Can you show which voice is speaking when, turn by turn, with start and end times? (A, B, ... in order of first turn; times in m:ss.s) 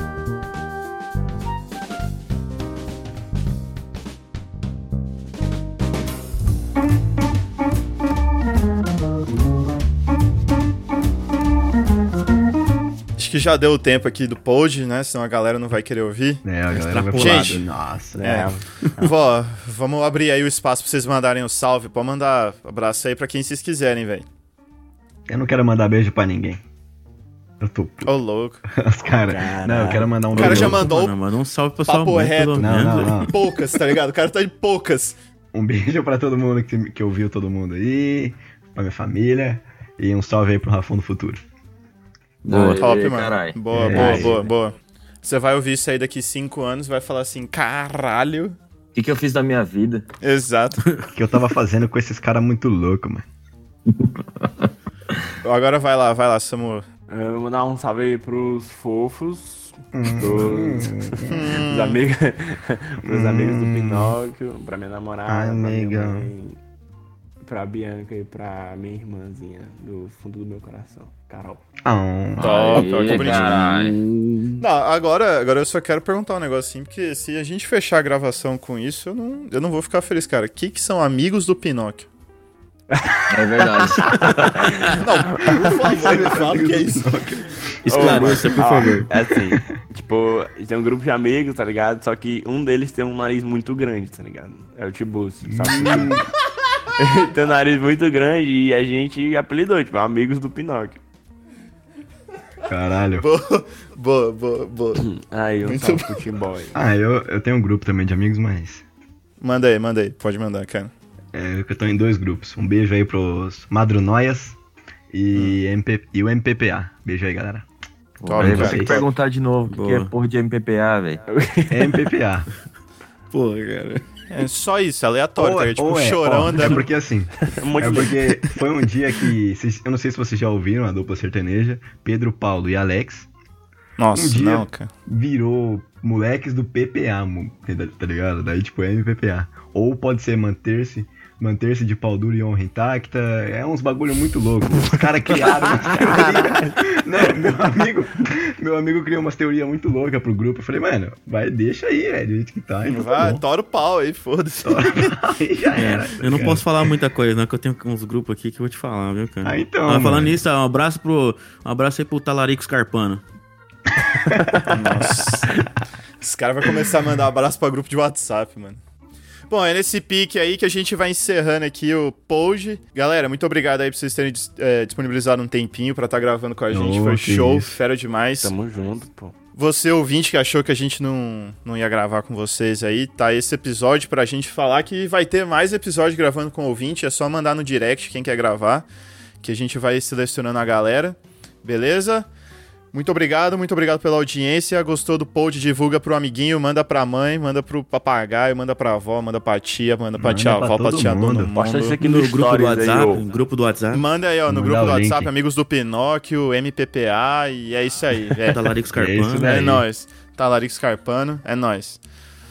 0:13.2-0:16.4 A
0:16.4-0:18.3 B
0:16.7-0:17.6 C
0:17.1-0:17.6 A
0:18.1-0:19.1 D
0:18.2-0:24.2 A
0:25.3-0:26.6 B
0:27.6-0:28.2 B
0:28.0-0:28.6 A
0:28.7-0:30.9 B
0:29.2-0:30.1 D
0:30.3-0:31.1 A
0:30.3-0:33.3 C
0:31.8-0:35.2 A
0:32.6-0:33.3 B
0:35.5-0:41.4 B
0:42.4-0:44.5 E
0:42.5-0:48.6 A
0:43.7-0:44.4 B
0:43.9-0:44.4 D
0:48.9-0:50.0 E
0:50.2-0:50.8 A
0:51.1-0:53.2 B
0:53.9-0:54.7 E
0:55.4-0:56.8 A
0:57.1-1:06.6 D
0:59.9-1:01.3 B
1:01.2-1:02.0 A
1:03.0-1:04.2 B
1:05.3-1:06.3 B
1:07.4-1:11.6 D
1:11.8-1:12.8 B
1:12.4-1:13.6 A
1:12.4-1:14.0 E
1:13.1-1:14.6 C
1:14.6-1:22.1 A
1:22.9-1:25.8 D
1:23.3-1:24.7 E
1:24.9-1:27.1 A
1:25.4-1:28.4 B
1:27.8-1:29.1 C
1:27.9-1:36.2 D
1:35.4-1:36.3 B
1:37.0-1:41.0 D
1:42.7-1:43.2 B
1:43.2-1:45.0 A
1:45.0-1:46.8 D
1:45.6-1:46.2 A
1:46.7-1:48.8 B
1:49.4-1:50.9 A
1:51.3-1:54.6 B
1:55.1-1:57.6 B
1:58.2-2:01.2 E
1:58.2-1:59.1 A
1:58.4-1:59.0 B
1:59.6-2:00.1 C
2:01.3-2:02.1 D
2:01.7-2:02.5 B
2:03.3-2:04.0 C
2:04.3-2:06.8 A
2:05.4-2:13.3 B
2:07.4-2:08.3 D
2:14.0-2:14.9 A
2:14.1-2:33.4 B
2:24.9-2:26.8 D
2:32.9-2:35.2 A
2:34.6-2:36.7 B
2:35.7-2:43.2 C
2:39.4-2:40.4 B
2:44.3-2:44.8 D
2:44.6-2:45.5 A
2:46.2-2:48.8 A
2:49.5-2:58.5 A
2:56.7-2:57.7 B
2:58.4-2:59.3 D
2:59.6-3:08.8 A
3:09.4-3:12.3 A
3:12.9-3:22.0 A
3:20.2-3:21.5 B
3:21.5-3:23.2 D
3:22.0-3:24.0 C
3:23.9-3:28.6 A
3:24.5-3:25.3 B
3:28.4-3:29.6 C
3:28.9-3:29.8 B
3:29.4-3:32.0 A